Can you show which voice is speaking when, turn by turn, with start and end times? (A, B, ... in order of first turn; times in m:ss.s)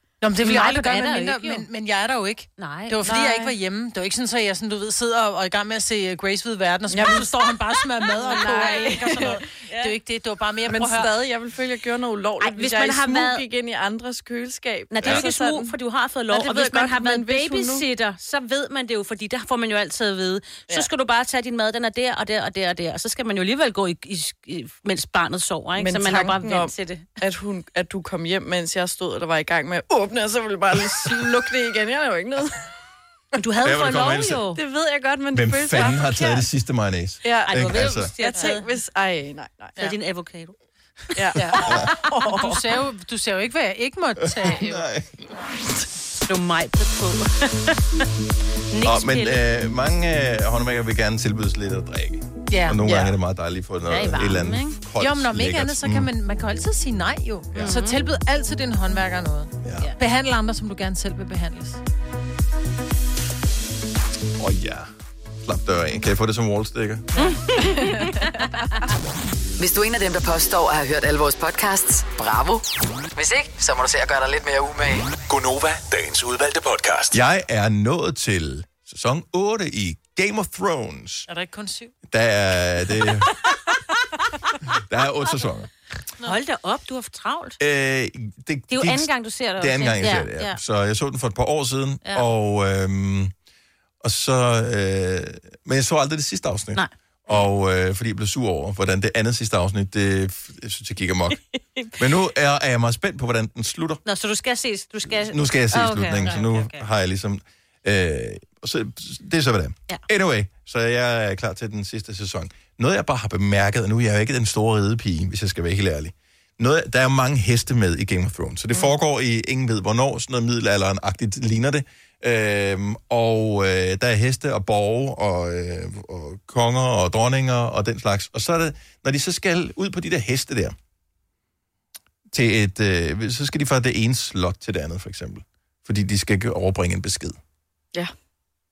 0:00.2-0:11.1 A
0:00.4-0:01.6 B
0:02.6-0:03.3 B
0:03.0-0:03.5 C
0:06.9-0:07.5 C
0:08.2-0:09.9 B
0:08.2-0:09.4 C
0:10.7-0:15.7 C
0:12.4-0:13.4 B
0:14.9-0:27.0 B
0:16.3-0:17.8 C
0:25.8-0:32.6 C
0:33.4-0:34.6 B
0:33.6-0:34.5 D
0:34.5-0:36.4 C
0:35.3-0:38.1 D
0:37.2-0:39.8 C
0:37.4-0:38.7 B
0:39.8-0:40.6 B
0:41.1-0:42.5 B
0:41.1-0:42.6 C
0:41.4-0:44.9 A
0:41.6-0:41.9 D
0:44.4-0:45.1 D
0:46.2-0:48.0 B
0:48.7-0:49.4 B
0:48.8-0:56.1 D
0:52.5-0:52.8 A
0:52.8-0:53.1 C
0:53.9-0:54.8 B
0:55.0-1:01.8 A
0:57.6-0:58.0 B
0:59.6-0:59.9 D
1:04.4-1:04.9 D
1:05.4-1:07.1 D
1:07.2-1:08.4 B
1:07.2-1:08.7 C
1:09.6-1:15.2 E
1:17.1-1:21.3 D
1:21.3-1:21.9 A
1:22.1-1:23.3 D
1:24.7-1:25.7 D
1:26.2-1:27.6 B
1:27.6-1:33.3 D
1:28.7-1:30.6 B
1:34.0-1:41.4 D
1:36.7-1:37.4 B
1:42.0-1:44.0 D
1:44.0-1:46.9 B
1:45.1-2:10.7 D
2:12.3-2:17.4 D